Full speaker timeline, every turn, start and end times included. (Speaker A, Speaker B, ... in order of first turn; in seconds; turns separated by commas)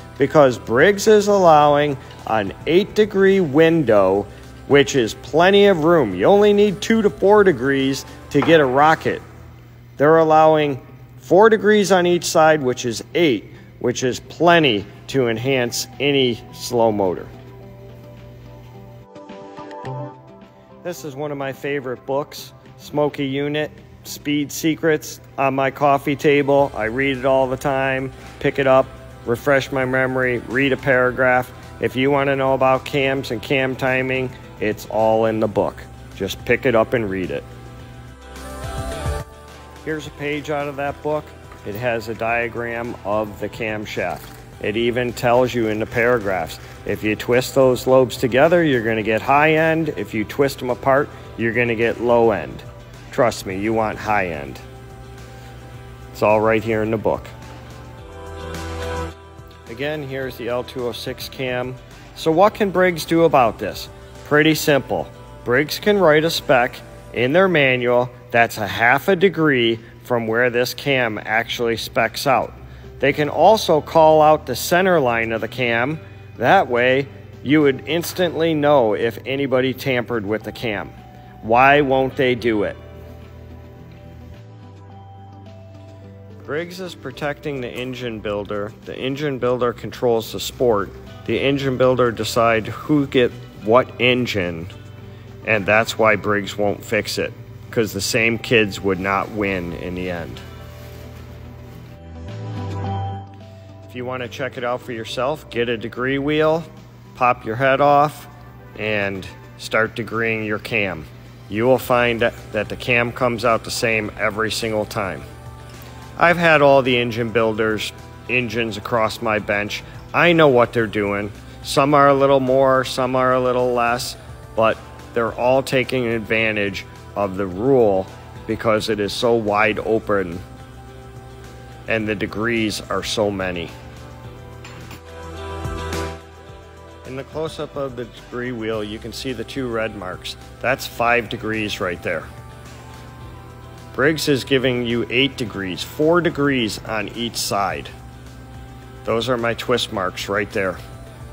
Speaker A: 0.2-9.2, Speaker A: 10.0-17.3, Speaker A: 20.8-37.5, Speaker A: 39.8-54.6, Speaker A: 56.1-57.3, Speaker A: 59.7-82.8, Speaker A: 86.4-94.7, Speaker A: 95.4-100.4, Speaker A: 103.9-115.2, Speaker A: 116.2-130.4, Speaker A: 131.9-133.8, Speaker A: 137.1-142.3, Speaker A: 143.9-147.9, Speaker A: 149.0-150.8